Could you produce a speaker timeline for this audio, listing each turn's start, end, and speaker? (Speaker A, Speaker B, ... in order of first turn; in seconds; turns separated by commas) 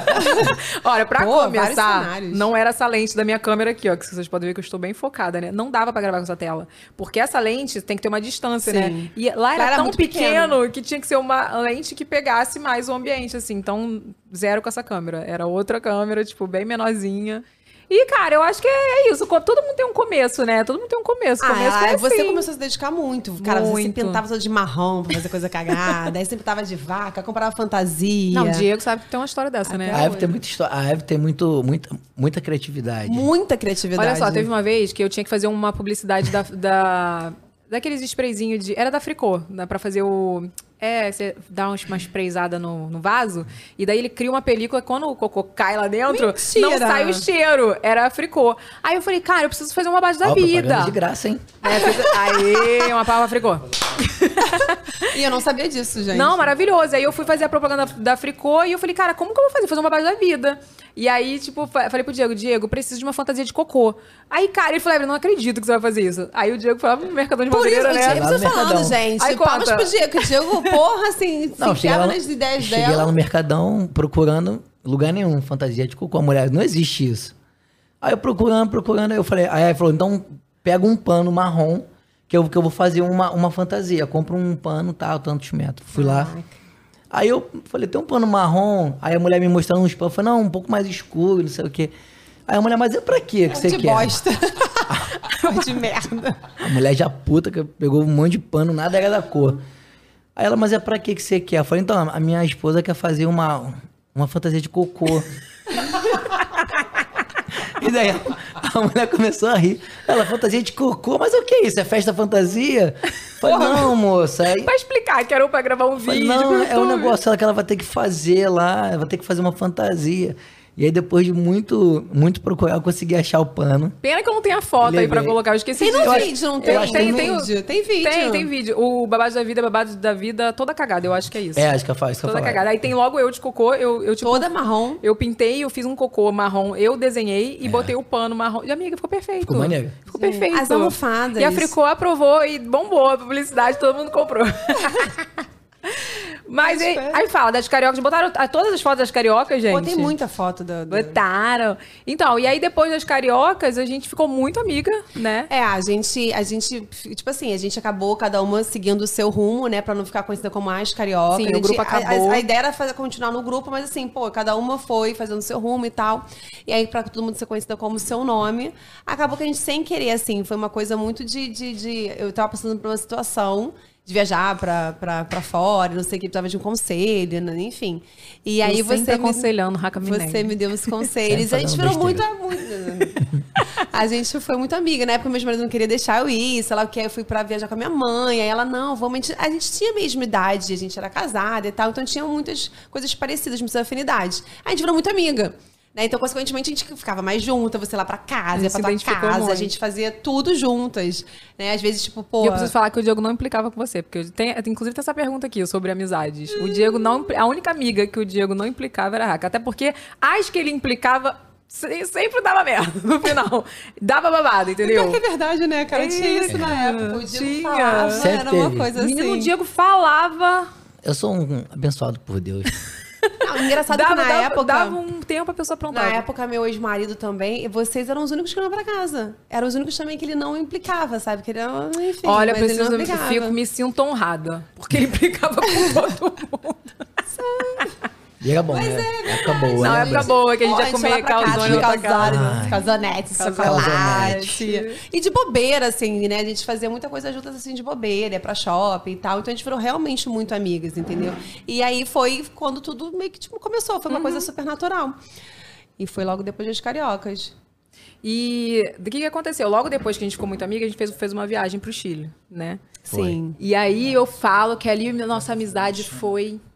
Speaker A: 0.2-0.5, Speaker B: 0.3-22.4, Speaker A: 1.2-2.5, Speaker A: 8.7-10.6, Speaker A: 21.4-28.7, Speaker B: 23.4-24.2, Speaker B: 28.3-30.1, Speaker A: 29.7-30.3, Speaker C: 29.9-33.3, Speaker A: 33.1-34.5, Speaker B: 34.0-51.0, Speaker A: 46.1-47.2, Speaker C: 50.2-51.5, Speaker B: 51.6-55.1, Speaker A: 51.6-52.7, Speaker A: 55.1-56.4, Speaker B: 56.1-68.3, Speaker A: 67.5-73.1, Speaker C: 68.0-69.0, Speaker B: 69.2-70.0, Speaker C: 71.6-77.3, Speaker C: 78.0-86.3, Speaker A: 86.0-86.5, Speaker C: 87.1-91.9, Speaker C: 92.5-94.2, Speaker A: 93.5-96.5, Speaker C: 96.6-99.6, Speaker C: 100.4-105.3, Speaker C: 107.7-114.7, Speaker B: 113.5-113.9, Speaker B: 114.6-117.2, Speaker C: 116.0-124.0, Speaker B: 124.0-127.5, Speaker C: 124.8-125.4, Speaker A: 125.8-128.5, Speaker C: 126.0-127.3, Speaker B: 128.0-134.5, Speaker C: 131.6-132.7, Speaker A: 134.2-135.0, Speaker B: 135.0-145.2, Speaker C: 137.6-137.9, Speaker C: 139.4-140.0, Speaker A: 140.1-141.7, Speaker B: 145.9-150.1, Speaker A: 146.6-147.3, Speaker A: 149.7-151.2, Speaker B: 150.9-155.5, Speaker A: 155.5-179.5, Speaker B: 161.3-162.4, Speaker B: 178.6-180.5, Speaker A: 180.0-202.7, Speaker C: 181.3-182.3, Speaker B: 198.5-199.7, Speaker B: 202.4-215.2, Speaker A: 206.5-207.2, Speaker A: 214.8-219.5, Speaker B: 215.9-218.3, Speaker C: 218.1-218.9, Speaker B: 219.0-220.7, Speaker C: 221.0-222.7, Speaker A: 223.4-225.0, Speaker B: 223.9-226.2, Speaker A: 225.9-233.6, Speaker B: 232.2-236.8, Speaker A: 237.3-238.0, Speaker C: 238.4-240.3, Speaker A: 238.7-255.2, Speaker B: 239.8-242.7, Speaker C: 241.4-242.8, Speaker B: 243.3-245.0, Speaker C: 243.6-244.6, Speaker B: 254.1-254.5, Speaker A: 256.0-257.5, Speaker B: 258.2-262.8, Speaker A: 263.1-263.6, Speaker C: 263.1-263.4, Speaker B: 263.6-266.6